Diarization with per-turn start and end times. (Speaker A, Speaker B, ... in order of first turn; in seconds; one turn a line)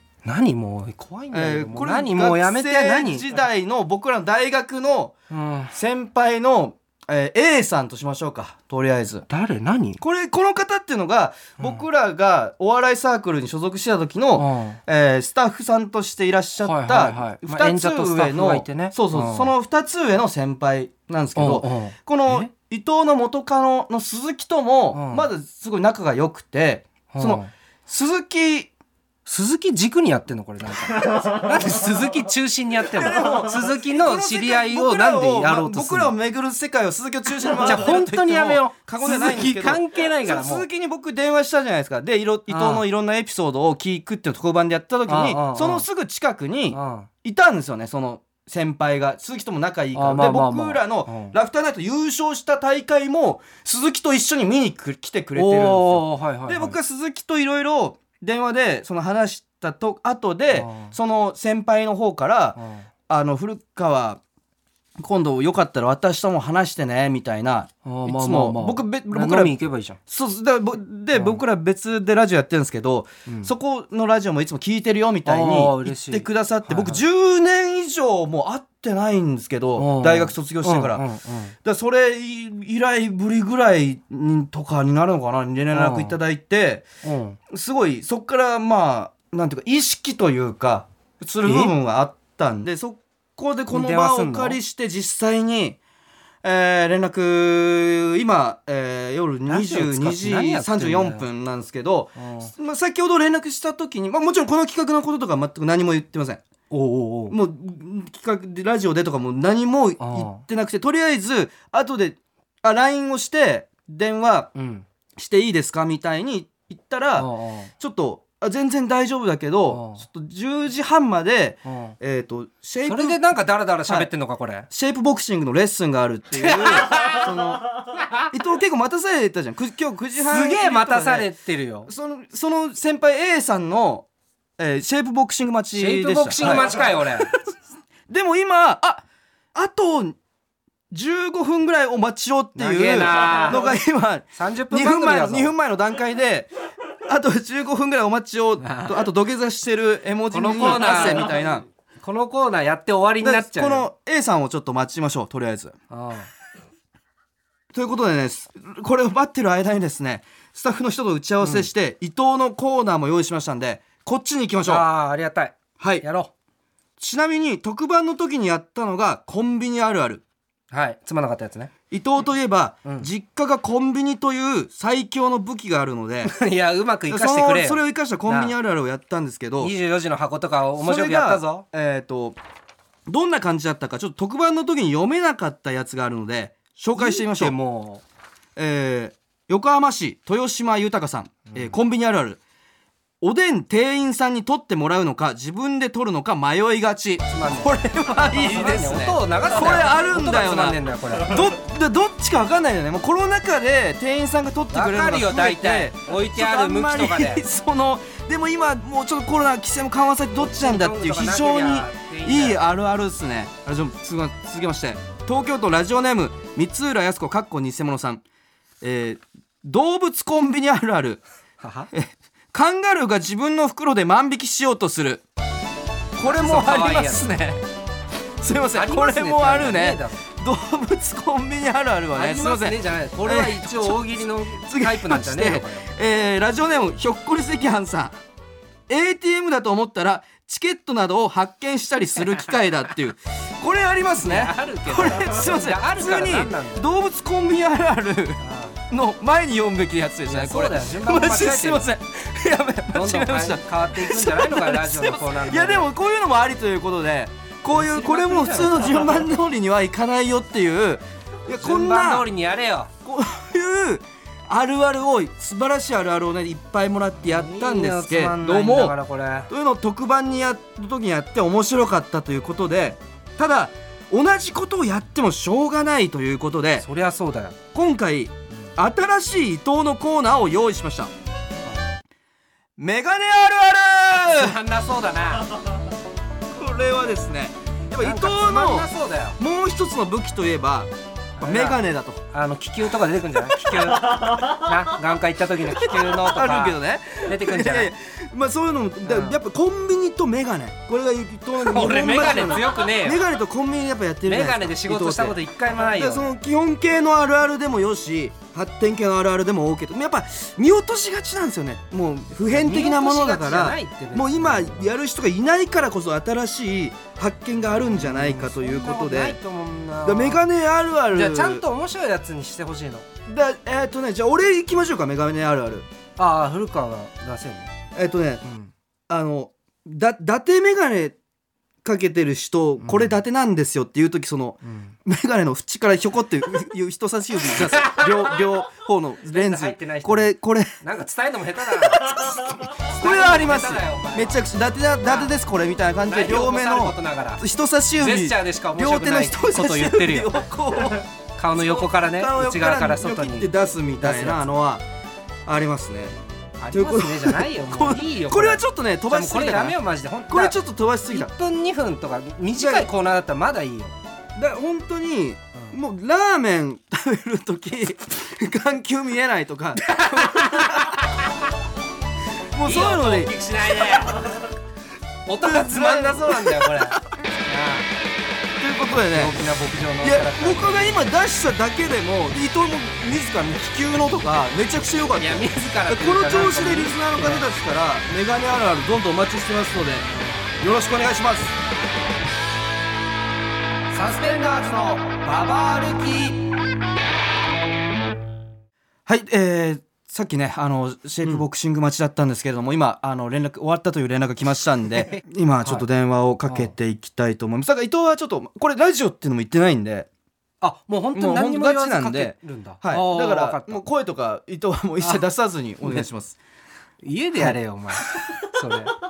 Speaker A: 0.2-3.3
Speaker B: 1.3-5.1
Speaker A: 5.3-5.7
Speaker B: 5.7-9.3
Speaker A: 9.3-10.0
Speaker B: 10.0-28.7
Speaker A: 14.3-14.8
Speaker A: 16.6-19.5
Speaker A: 21.4-22.5
Speaker A: 24.9-25.3
Speaker A: 27.1-27.5
Speaker A: 29.3-36.1
Speaker B: 32.9-62.6
Speaker A: 37.6-40.7
Speaker A: 42.5-42.9
Speaker A: 45.1-45.9
Speaker A: 46.7-47.1
Speaker A: 50.0-51.4
Speaker A: 55.4-56.8
Speaker A: 60.5-60.9
Speaker A: 62.6-62.9
Speaker B: 63.1-64.2
Speaker B: 65.0-69.6
Speaker A: 67.8-70.0
Speaker B: 70.1-81.0
Speaker A: 71.1-71.4
Speaker A: 73.3-73.5
Speaker A: 75.2-77.0
Speaker A: 79.8-81.5
Speaker B: 81.6-86.9
Speaker A: 85.7-86.2
Speaker A: 87.0-87.4
Speaker B: 87.5-95.8
Speaker A: 91.5-91.7
Speaker A: 93.7-94.6
Speaker B: 96.4-106.4
Speaker A: 99.5-101.3
Speaker A: 102.2-102.5
Speaker A: 106.7-107.4
Speaker B: 107.3-114.5
Speaker A: 110.0-110.4
Speaker A: 114.5-114.9
Speaker B: 115.2-123.2
Speaker A: 117.2-117.7
Speaker A: 119.7-120.0
Speaker A: 121.7-122.0
Speaker A: 122.8-124.7
Speaker B: 123.8-124.1
Speaker B: 124.7-131.3
Speaker A: 126.4-127.3
Speaker A: 128.0-128.3
Speaker A: 130.2-131.9
Speaker B: 131.9-134.1
Speaker B: 134.6-137.4
Speaker A: 135.8-137.3
Speaker B: 138.1-140.2
Speaker B: 140.9-146.5
Speaker A: 142.6-143.7
Speaker A: 144.3-145.5
Speaker B: 147.0-151.7
Speaker A: 148.6-149.0
Speaker A: 150.3-151.3
Speaker A: 152.0-153.9
Speaker B: 153.2-155.8
Speaker A: 155.9-156.3
Speaker B: 157.7-164.9
Speaker A: 161.4-161.7
Speaker A: 164.7-166.3
Speaker B: 165.8-166.0
Speaker B: 167.0-170.2
Speaker A: 170.7-171.7
Speaker B: 171.9-176.3
Speaker A: 176.2-178.6
Speaker B: 177.1-179.7
Speaker A: 179.6-181.7
Speaker B: 180.8-182.4
Speaker B: 183.1-187.6
Speaker A: 186.9-188.0
Speaker B: 188.6-192.4
Speaker B: 193.2-218.2
Speaker A: 197.3-201.5
Speaker A: 204.7-207.4
Speaker A: 210.4-212.6
Speaker B: 218.8-221.2
Speaker A: 221.6-221.9
Speaker B: 221.9-225.2
Speaker B: 226.2-227.6
Speaker A: 226.2-227.4
Speaker B: 228.4-238.2
Speaker A: 228.7-230.2
Speaker A: 232.2-235.9
Speaker B: 238.9-262.3
Speaker A: 244.2-246.9
Speaker A: 248.4-248.8
Speaker A: 250.3-251.9
Speaker A: 252.9-255.9
Speaker A: 257.7-259.2
Speaker A: 261.6-262.9
Speaker B: 263.0-269.0
Speaker A: 267.2-269.5
Speaker B: 269.5-276.9
Speaker A: 276.8-277.6
Speaker B: 277.7-281.1
Speaker B: 282.8-284.6
Speaker A: 284.3-285.5
Speaker B: 286.5-292.2
Speaker A: 288.0-289.4
Speaker A: 291.4-297.9
Speaker B: 293.4-294.5
Speaker B: 295.7-319.4
Speaker A: 299.1-299.4
Speaker A: 301.6-303.2
Speaker A: 304.3-306.3
Speaker A: 312.5-314.9
Speaker A: 317.8-320.4
Speaker B: 320.0-321.6
Speaker A: 321.1-323.1
Speaker B: 323.3-325.9
Speaker A: 326.2-327.7
Speaker B: 327.9-328.4
Speaker A: 328.4-328.7
Speaker B: 329.1-331.2
Speaker B: 331.8-340.7
Speaker A: 332.8-333.2
Speaker A: 334.6-334.9
Speaker A: 337.5-338.4
Speaker A: 339.3-344.4
Speaker B: 341.7-354.8
Speaker A: 345.1-345.3
Speaker A: 346.1-347.4
Speaker A: 348.0-350.4
Speaker A: 351.4-354.4
Speaker B: 355.4-356.2
Speaker A: 356.6-360.6
Speaker B: 356.7-361.3
Speaker A: 361.1-364.0
Speaker B: 362.6-362.9
Speaker B: 364.4-371.0
Speaker A: 369.8-371.4
Speaker B: 372.5-374.3
Speaker A: 372.6-374.4
Speaker A: 375.3-377.9
Speaker B: 375.4-377.1
Speaker B: 378.6-379.4
Speaker A: 379.1-381.0
Speaker B: 380.0-390.1
Speaker A: 385.2-387.5
Speaker B: 390.6-391.6
Speaker A: 393.9-396.4
Speaker B: 394.5-396.3
Speaker B: 399.1-410.1
Speaker A: 405.0-405.9
Speaker A: 406.5-406.7
Speaker A: 410.6-413.8
Speaker B: 411.1-416.4
Speaker A: 417.0-418.9
Speaker B: 417.4-418.2